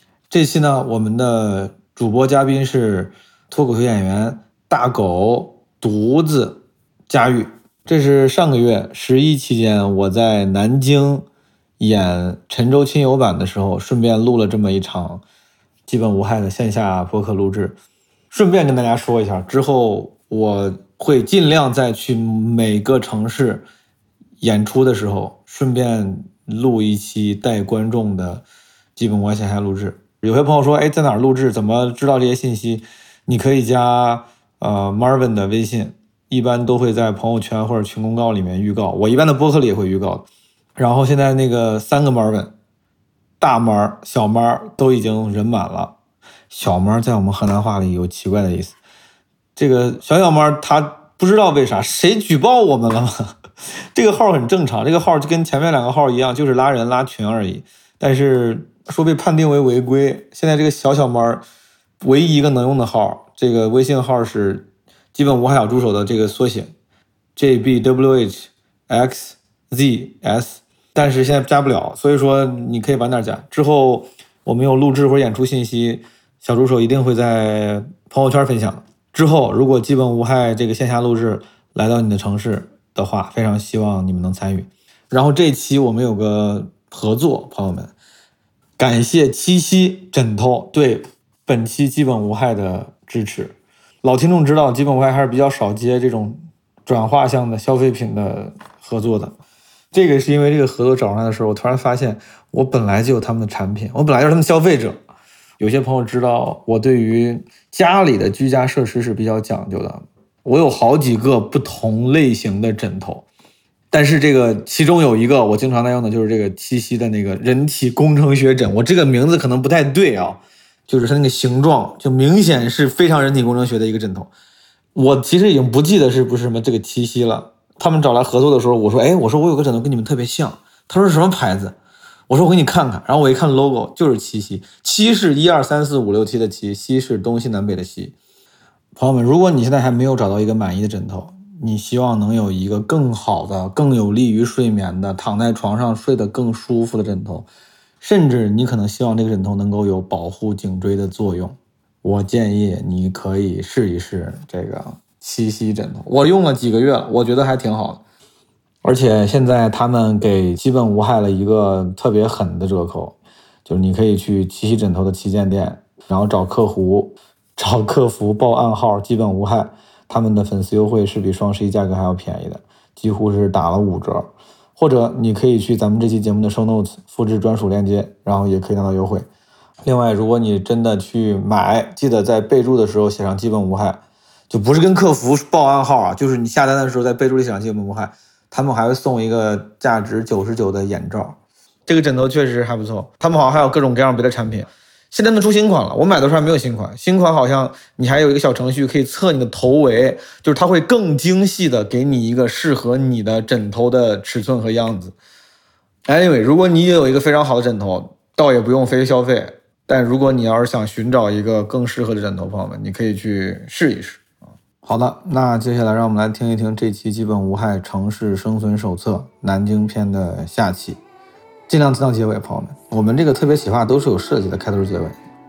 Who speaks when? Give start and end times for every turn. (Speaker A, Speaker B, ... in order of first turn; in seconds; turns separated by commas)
Speaker A: 0.3-11.2, Speaker A: 11.8-15.2, Speaker A: 15.9-17.8, Speaker A: 18.3-23.7, Speaker A: 24.4-28.4, Speaker A: 28.9-42.5, Speaker A: 43.4-46.0, Speaker A: 46.5-48.7, Speaker A: 49.5-53.4, Speaker A: 53.9-61.4, Speaker A: 62.0-66.7, Speaker A: 67.3-87.9, Speaker A: 88.8-99.3, Speaker A: 99.9-105.0, Speaker A: 105.6-113.2, Speaker A: 113.9-124.3, Speaker A: 124.9-131.8, Speaker A: 132.3-138.2, Speaker A: 138.9-147.5, Speaker A: 148.0-158.0, Speaker A: 158.8-179.3, Speaker A: 179.8-205.1, Speaker A: 206.1-214.2, Speaker A: 214.8-221.0, Speaker A: 221.7-225.2